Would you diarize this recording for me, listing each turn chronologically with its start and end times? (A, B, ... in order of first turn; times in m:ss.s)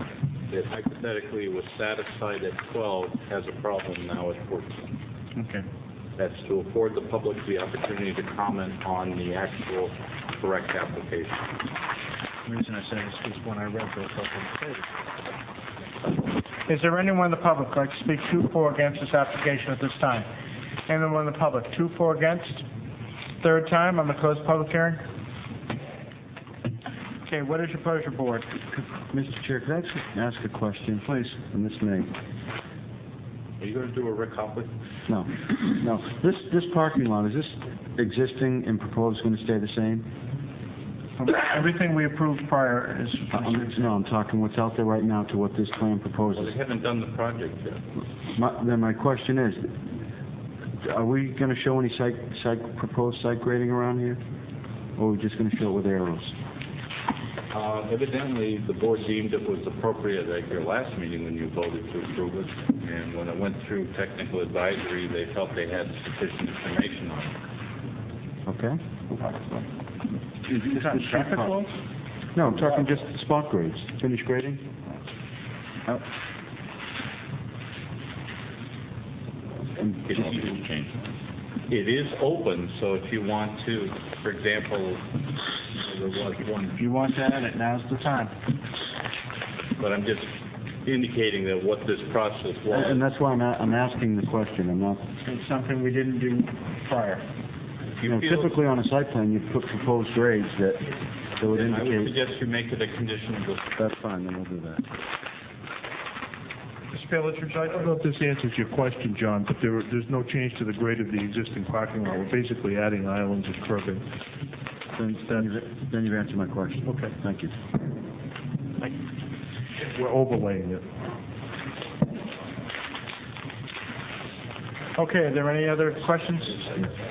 0:00.5-0:04.9 A
0:05.4-0:05.7 B
0:06.2-0:11.6 A
0:12.4-0:14.9 B
0:16.7-0:20.3 B
0:20.9-0:22.6 B
0:23.4-0:25.0 B
0:27.2-0:28.5 B
0:28.8-0:32.1 C
0:33.6-0:34.7 A
0:35.1-0:40.1 C
0:41.2-0:43.9 B
0:43.3-0:46.6 C
0:46.3-0:47.8 A
0:48.4-0:49.9 C
0:50.8-0:54.2 C
0:55.0-0:56.4 C
0:57.5-1:07.3 A
1:08.5-1:08.8 C
1:09.1-1:09.6 B
1:10.5-1:11.6 C
1:10.5-1:11.7 B
1:12.4-1:14.7 C
1:19.7-1:20.6 C
1:20.1-1:21.0 A
1:21.7-1:25.1 A
1:25.8-1:26.8 A
1:26.8-1:28.3 B
1:29.8-1:30.3 A
1:30.8-1:33.0 A
1:32.7-1:35.0 C
1:35.2-1:37.2 B
1:38.0-1:38.6 A
1:38.0-1:42.1 C
1:41.5-1:43.7 A
1:43.8-1:44.9 C
1:46.9-1:47.9 B
1:47.8-1:54.0 D
1:55.0-1:57.5 C
1:59.9-2:00.8 D
2:05.0-2:06.9 B